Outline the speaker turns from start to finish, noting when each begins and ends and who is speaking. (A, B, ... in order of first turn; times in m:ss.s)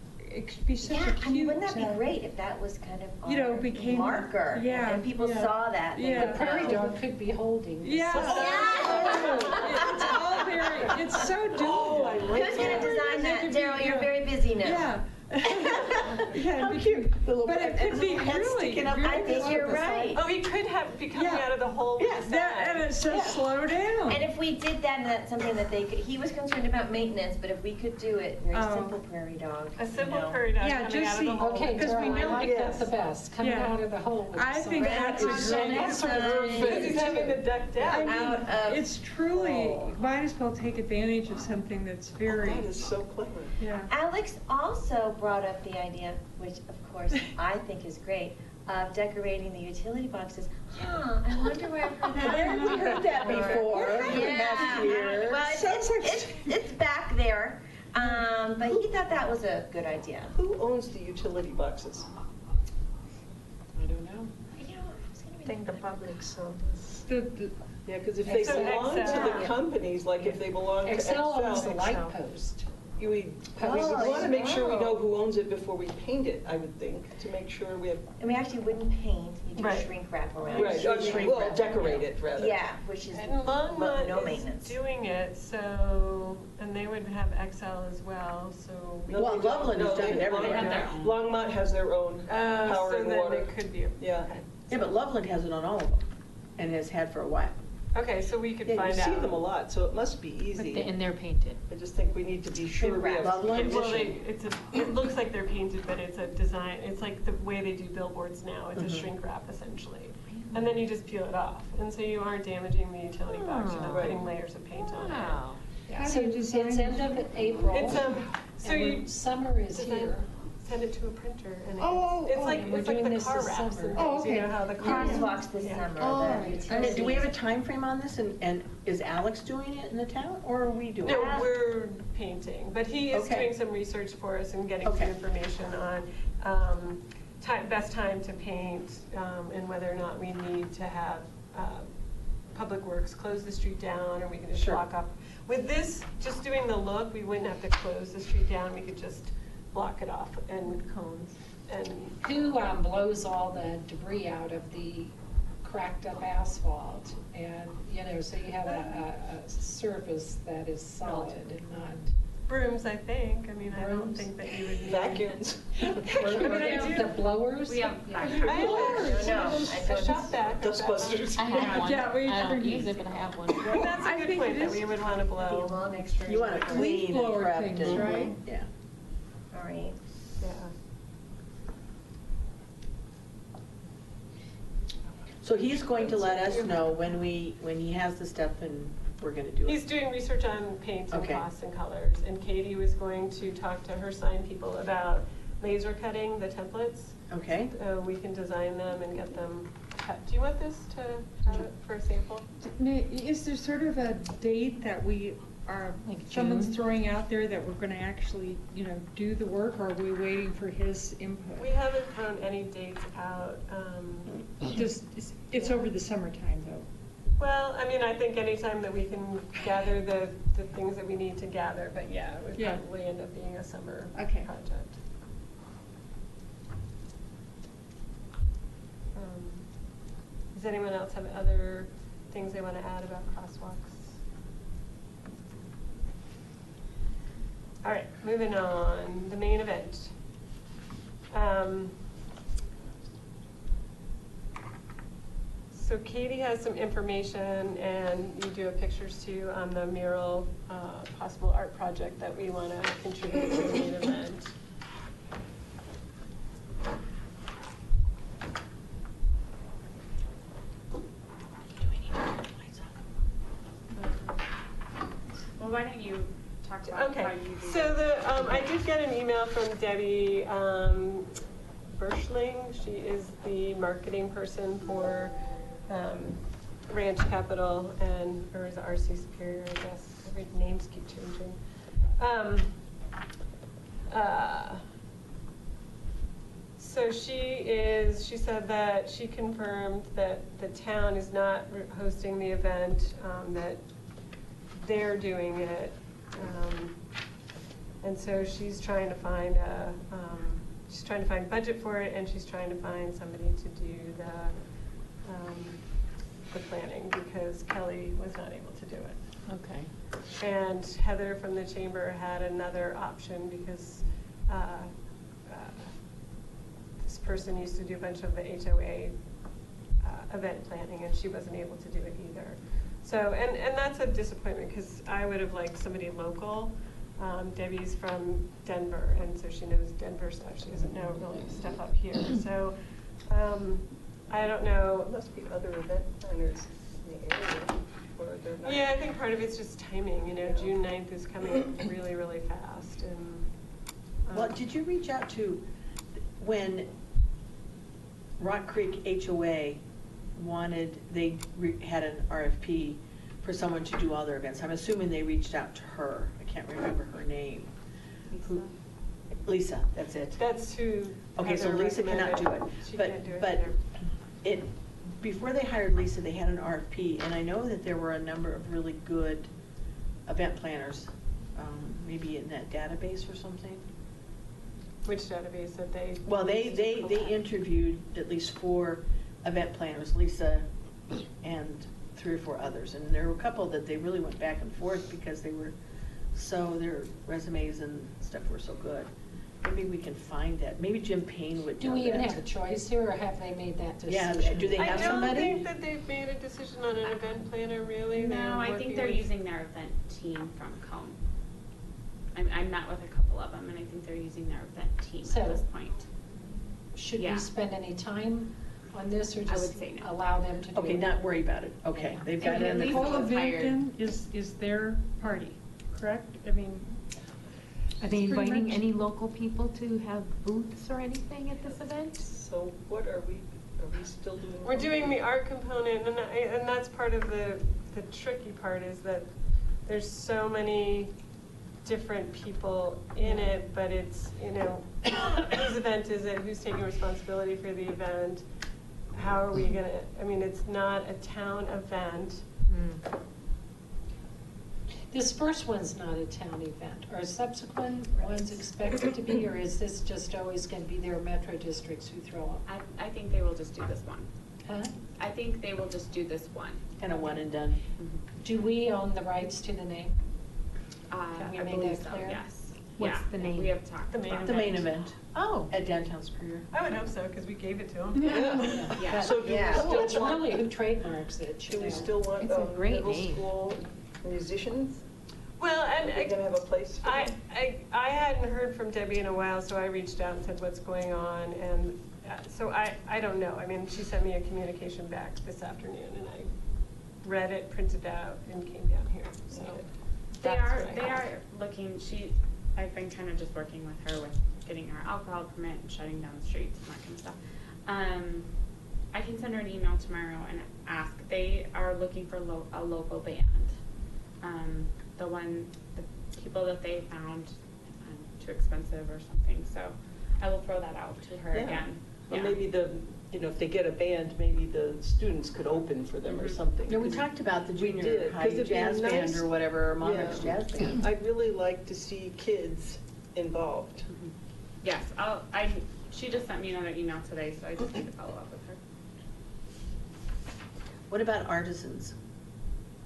0:00.2-0:02.1 A
0:00.8-0:06.9 B
0:03.2-0:06.9 A
0:06.1-0:08.9 C
0:07.8-0:20.1 A
0:08.1-0:10.2 D
0:08.2-0:10.2 B
0:11.5-0:13.4 D
0:12.2-0:14.9 B
0:15.5-0:20.1 E
0:19.0-0:20.3 B
0:20.1-0:22.9 F
0:21.1-0:21.5 A
0:22.0-0:22.3 E
0:22.2-0:24.2 A
0:23.1-0:23.4 E
0:24.0-0:30.5 B
0:28.5-0:29.0 A
0:29.8-0:32.8 F
0:30.5-0:32.8 A
0:31.4-0:37.1 C
0:32.4-0:32.9 D
0:33.4-0:37.0 A
0:34.8-0:37.2 B
0:34.8-0:36.1 E
0:36.1-0:37.4 D
0:36.6-0:38.3 F
0:37.8-0:42.7 A
0:37.9-0:40.0 B
0:42.2-0:43.6 D
0:43.6-0:43.9 A
0:43.9-1:00.4 B
0:51.2-0:55.0 A
0:52.2-0:55.5 E
0:55.5-0:55.8 D
0:55.6-0:56.5 A
1:00.3-1:02.2 D
1:03.7-1:04.3 C
1:04.5-1:06.3 B
1:05.4-1:07.5 A
1:06.7-1:07.0 D
1:07.8-1:11.9 D
1:08.2-1:09.5 C
1:08.3-1:09.5 F
1:10.2-1:12.6 C
1:11.4-1:12.2 F
1:13.0-1:18.1 D
1:13.6-1:14.5 A
1:13.6-1:15.0 B
1:13.8-1:14.1 C
1:18.2-1:24.8 B
1:19.6-1:19.9 F
1:20.4-1:21.0 F
1:20.5-1:22.6 D
1:23.1-1:30.9 F
1:29.1-1:34.4 D
1:29.1-1:30.9 E
1:30.1-1:31.3 G
1:32.3-1:34.4 F
1:34.7-1:37.5 E
1:37.9-1:39.4 F
1:38.6-1:41.0 D
1:40.5-1:41.6 H
1:41.7-1:44.1 D
1:42.7-1:44.2 E
1:43.2-1:56.1 F
1:48.8-1:49.1 E
1:50.3-1:50.8 H
1:53.3-1:54.2 H
1:53.9-1:54.3 D
1:54.7-1:55.6 H
1:55.9-1:58.2 A
1:56.0-2:00.3 C
1:57.7-1:59.1 F
1:59.7-2:06.2 F
2:01.8-2:03.0 A
2:02.3-2:05.3 C
2:03.9-2:05.4 A
2:04.8-2:07.4 B
2:06.0-2:07.2 A
2:06.7-2:11.5 E
2:11.0-2:30.9 F
2:11.0-2:11.5 B
2:13.1-2:13.5 E
2:14.8-2:15.1 E
2:24.5-2:24.8 E
2:30.7-2:31.4 H
2:31.7-2:32.2 F
2:32.2-2:42.1 C
2:41.0-2:41.5 F
2:42.5-2:45.4 F
2:43.7-2:44.5 C
2:44.8-2:47.0 D
2:46.0-2:49.6 C
2:46.0-2:47.1 F
2:46.5-2:47.0 G
2:47.6-2:48.9 G
2:48.1-2:49.9 A
2:48.2-2:51.6 F
2:48.5-2:49.1 D
2:48.6-2:50.6 B
2:50.5-2:51.9 D
2:51.3-2:53.9 H
2:51.6-2:53.1 A
2:53.6-2:56.8 F
2:53.8-2:58.4 A
2:56.3-2:58.7 E
2:57.0-2:58.1 C
2:59.5-3:00.0 B
3:00.4-3:00.7 F
3:05.4-3:09.8 E
3:09.6-3:22.4 F
3:11.1-3:11.4 E
3:17.3-3:17.7 E
3:22.6-3:31.7 A
3:26.0-3:26.8 H
3:31.6-3:34.8 F
3:34.6-3:36.9 A
3:35.5-3:35.8 F
3:37.4-3:45.0 F
3:42.6-3:42.8 A
3:44.1-3:44.5 A
3:49.1-3:54.2 F
3:57.8-4:00.1 F
4:01.3-4:02.0 F
4:05.7-4:14.5 F
4:21.7-4:22.9 E
4:25.6-4:28.6 G
4:26.9-4:31.4 F
4:31.9-4:35.3 F
4:35.9-4:42.8 F
4:44.1-4:44.8 F
4:46.8-4:53.9 F
4:54.7-4:57.1 F
4:58.0-5:09.2 F
5:09.5-5:09.9 H
5:10.4-5:16.4 F
5:17.0-5:35.1 F
5:35.0-5:39.1 D
5:38.6-5:43.5 F
5:40.4-5:40.7 D
5:44.2-5:44.6 F
5:44.3-5:45.6 E
5:46.4-5:46.9 E
5:48.4-5:49.8 E
5:50.4-5:57.7 E
5:58.3-5:58.6 F
5:59.4-6:00.4 E
6:00.4-6:03.8 F
6:01.3-6:03.7 E
6:04.4-6:09.5 E
6:10.3-6:13.8 E
6:15.0-6:17.4 F
6:16.2-6:20.7 E
6:21.4-6:25.7 E
6:26.3-6:29.1 E
6:29.6-6:32.4 E
6:31.8-6:35.2 C
6:34.1-6:35.6 E
6:34.8-6:39.3 F
6:38.1-6:41.2 G
6:42.3-6:46.1 G
6:45.2-6:45.6 C
6:46.9-6:51.2 C
6:47.2-6:47.5 G
6:49.4-6:50.1 G
6:50.7-6:53.4 E
6:51.9-6:52.2 H
6:52.4-6:53.8 G
6:52.4-6:56.9 A
6:58.0-6:58.8 A
6:58.0-7:02.3 H
7:02.2-7:05.2 D
7:04.6-7:11.2 F
7:11.8-7:18.4 F
7:19.1-7:22.4 F
7:22.7-7:23.0 H
7:25.1-7:32.6 C
7:32.6-7:34.3 G
7:34.6-7:34.9 C
7:35.2-7:37.4 G
7:37.0-7:37.8 E
7:38.4-7:40.2 C
7:41.1-7:45.0 G
7:41.5-7:42.4 C
7:43.0-7:43.8 H
7:44.1-7:44.8 F
7:44.4-7:46.7 E
7:46.7-7:48.8 F
7:48.2-7:50.8 D
7:48.6-7:52.2 C
7:48.9-7:49.8 G
7:49.3-7:50.0 B
7:51.6-7:55.0 D
7:52.4-7:53.4 H
7:55.6-8:06.5 F
7:55.9-7:57.3 D
8:07.1-8:11.3 F
8:09.5-8:09.8 D
8:10.4-8:18.5 G
8:19.1-8:23.8 G
8:24.4-8:32.6 G
8:31.5-8:44.1 D
8:36.2-8:36.6 G
8:36.9-8:41.0 E
8:44.1-8:48.8 G
8:51.1-8:52.1 E